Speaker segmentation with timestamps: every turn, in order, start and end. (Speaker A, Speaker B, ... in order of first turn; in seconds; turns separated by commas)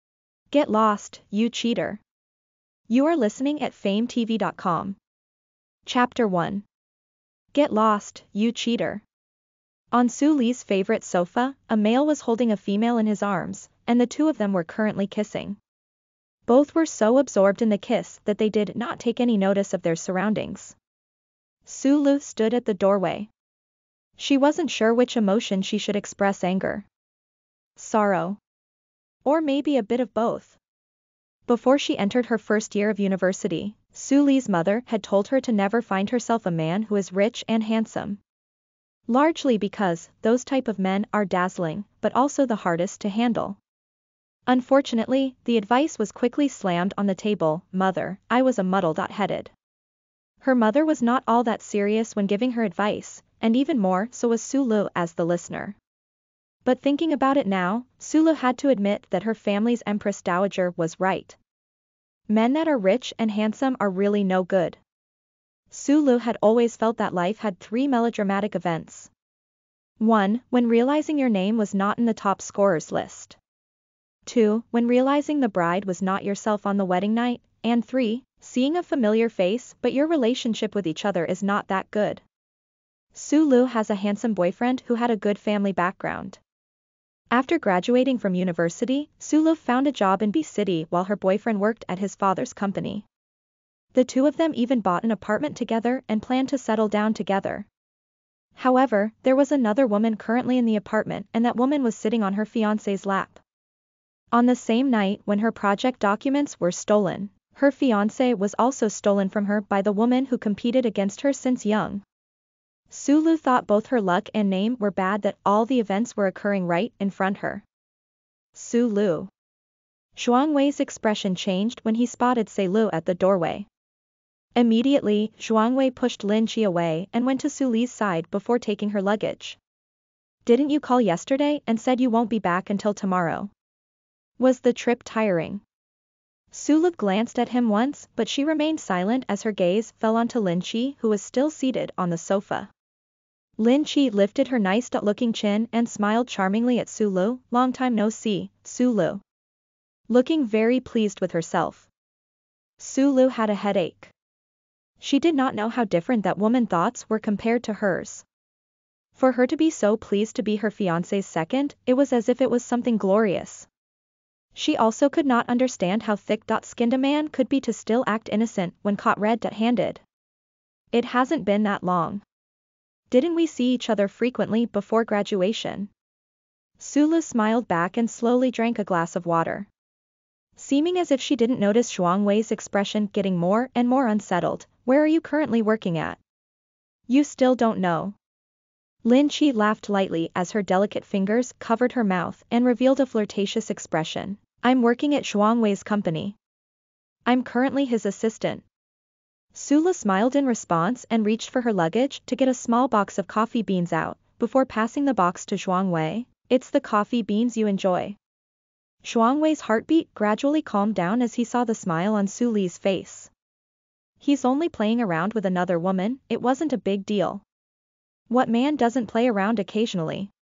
Speaker A: 0.5-2.0, Speaker A: 2.9-5.0, Speaker A: 5.8-6.6, Speaker A: 7.5-9.0, Speaker A: 9.9-15.6, Speaker A: 16.5-20.8, Speaker A: 21.6-23.3, Speaker A: 24.2-26.9, Speaker A: 27.8-28.4, Speaker A: 29.2-30.6, Speaker A: 31.5-38.2, Speaker A: 39.1-43.6, Speaker A: 44.5-49.5, Speaker A: 50.4-55.8, Speaker A: 56.6-61.4, Speaker A: 62.3-64.8, Speaker A: 65.7-69.1, Speaker A: 70.0-73.4, Speaker A: 74.2-82.2, Speaker A: 83.1-86.4, Speaker A: 87.3-93.0, Speaker A: 93.9-97.7, Speaker A: 98.6-103.4, Speaker A: 104.3-112.0, Speaker A: 112.9-117.6, Speaker A: 118.5-119.3, Speaker A: 120.2-123.7, Speaker A: 124.5-129.6, Speaker A: 130.4-133.5, Speaker A: 134.4-135.6, Speaker A: 136.5-142.7, Speaker A: 143.6-149.2, Speaker A: 150.1-151.9, Speaker A: 152.8-154.1, Speaker A: 155.0-158.2, Speaker A: 159.1-163.7, Speaker A: 164.5-170.0, Speaker A: 170.9-172.2, Speaker A: 173.1-175.9, Speaker A: 176.8-179.7, Speaker A: 180.6-186.2, Speaker A: 187.1-188.2, Speaker A: 189.0-196.3, Speaker A: 197.2-198.6, Speaker A: 199.5-208.2, Speaker A: 209.0-213.3, Speaker A: 214.2-217.4, Speaker A: 218.3-220.3